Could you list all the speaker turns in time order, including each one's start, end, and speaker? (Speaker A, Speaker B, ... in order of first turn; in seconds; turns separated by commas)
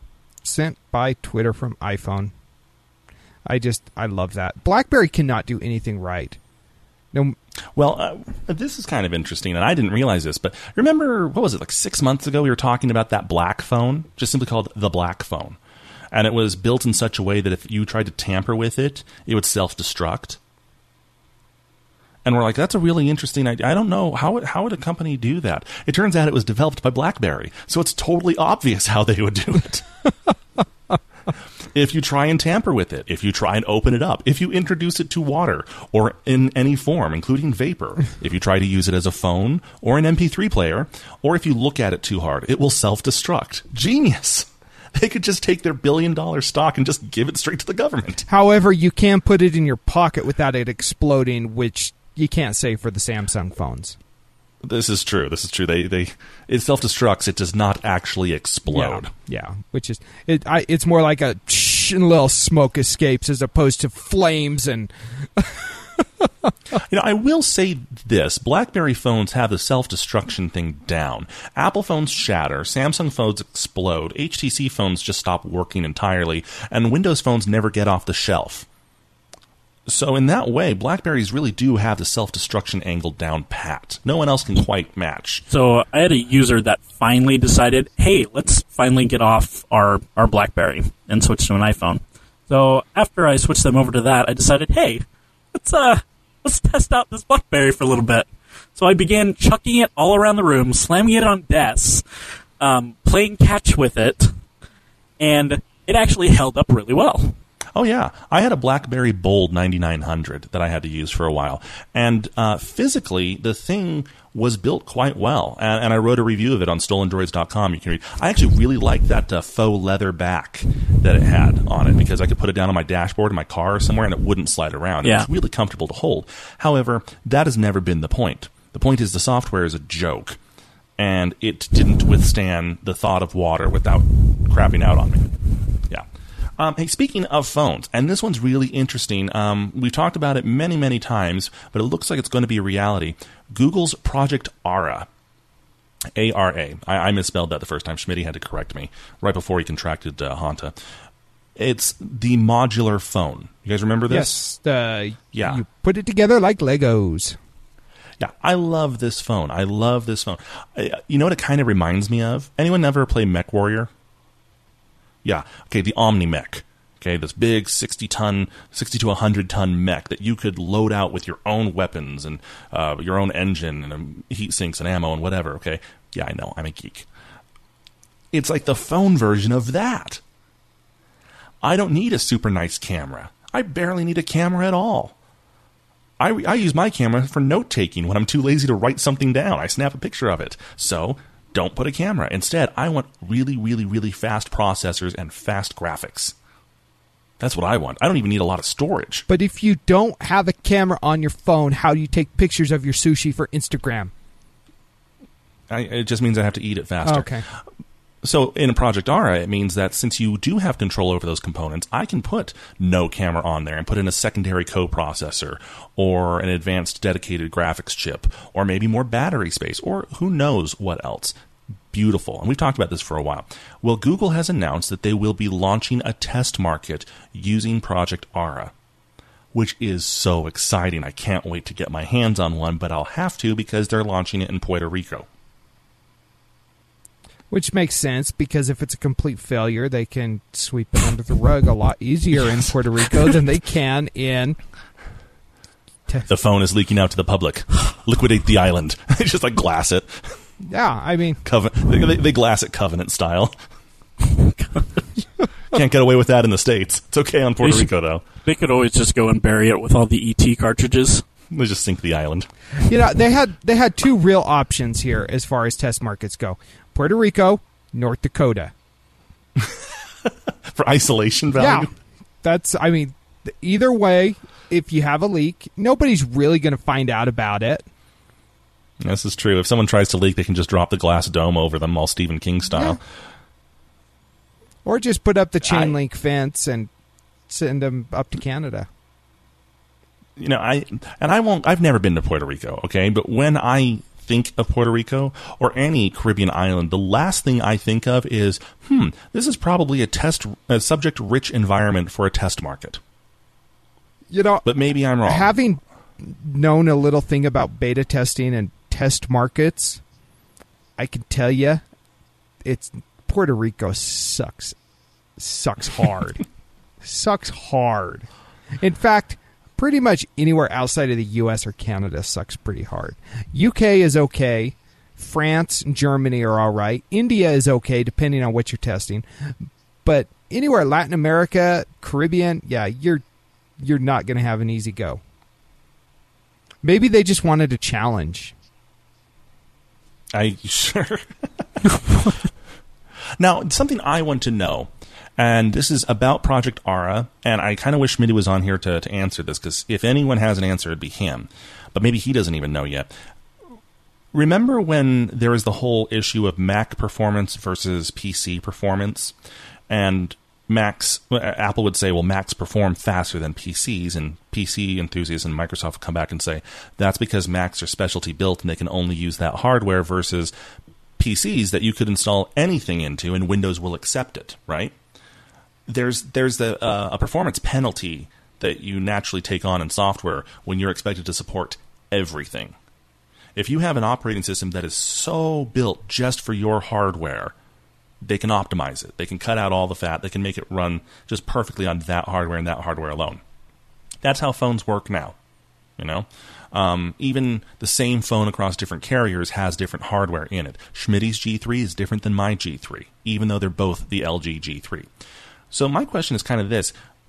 Speaker A: 0.4-2.3, Speaker A: 3.5-6.4, Speaker B: 7.8-15.6, Speaker B: 16.1-20.4, Speaker B: 22.2-29.9, Speaker B: 31.7-48.2, Speaker A: 48.3-54.0, Speaker B: 54.6-59.1, Speaker A: 58.7-66.0, Speaker B: 66.7-78.7, Speaker B: 79.9-85.4, Speaker C: 85.5-102.0, Speaker C: 102.6-104.3, Speaker C: 105.2-107.3, Speaker B: 107.7-130.4, Speaker C: 125.0-125.3, Speaker B: 131.0-135.3, Speaker B: 136.6-145.1, Speaker B: 146.1-150.7, Speaker B: 151.6-154.4, Speaker A: 154.1-157.4, Speaker B: 155.3-155.6, Speaker B: 158.2-163.9, Speaker B: 165.2-177.1, Speaker B: 178.3-180.2, Speaker B: 181.6-185.1, Speaker B: 186.2-196.3, Speaker B: 197.4-199.2, Speaker A: 199.3-204.1, Speaker B: 205.7-207.5, Speaker A: 207.0-207.4, Speaker B: 208.2-221.3, Speaker B: 221.9-228.7, Speaker B: 229.5-235.3, Speaker A: 237.5-244.6, Speaker B: 246.2-250.4, Speaker A: 250.6-251.4, Speaker B: 251.4-253.5, Speaker B: 255.7-258.2, Speaker C: 257.6-257.9, Speaker C: 258.4-261.2, Speaker B: 261.5-262.5, Speaker A: 262.8-268.7, Speaker B: 269.6-271.9, Speaker A: 271.5-271.9, Speaker A: 272.4-277.9, Speaker B: 279.0-283.0, Speaker A: 284.8-286.9, Speaker B: 285.7-285.9, Speaker A: 287.5-288.9, Speaker B: 290.4-303.0, Speaker A: 304.3-304.6, Speaker B: 304.6-305.5, Speaker A: 305.2-310.0, Speaker A: 311.0-311.8, Speaker A: 312.6-314.8, Speaker A: 315.4-316.4, Speaker A: 317.0-318.3, Speaker A: 318.8-329.5, Speaker A: 330.0-333.2, Speaker A: 333.8-335.2, Speaker A: 336.8-338.5, Speaker B: 340.3-341.4, Speaker B: 343.4-353.1, Speaker B: 354.3-359.3, Speaker B: 359.9-370.5, Speaker B: 371.2-374.9, Speaker B: 375.9-382.7, Speaker B: 383.6-387.5, Speaker B: 388.2-393.4, Speaker B: 394.2-395.4, Speaker B: 396.0-405.1, Speaker B: 405.7-406.9